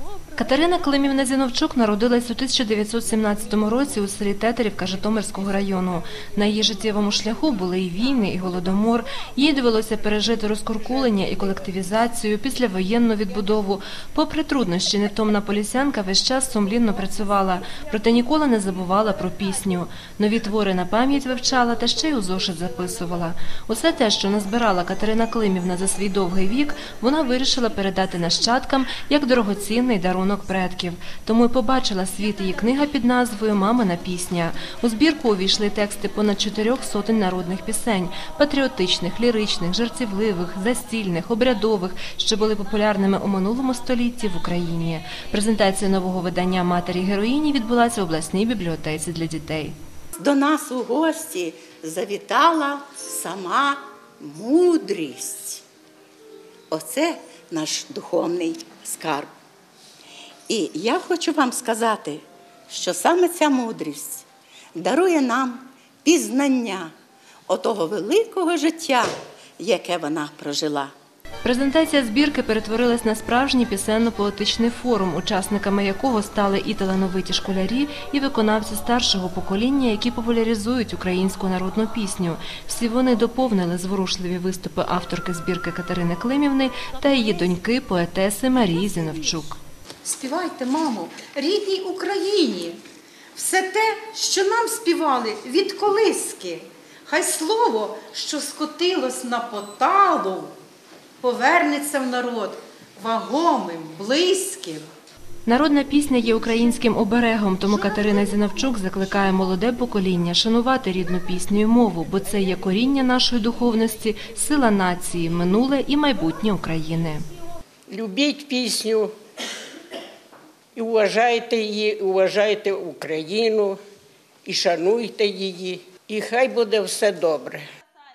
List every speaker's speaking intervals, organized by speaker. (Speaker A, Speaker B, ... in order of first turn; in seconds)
Speaker A: 0.3-49.8, 71.4-89.6, 105.5-117.3
Speaker B: 50.2-55.6, 56.7-59.3, 60.5-66.9, 67.5-70.9
Speaker C: 90.0-92.8, 93.3-100.5, 101.2-104.9
Speaker D: 117.9-119.1, 120.8-123.8, 124.5-127.7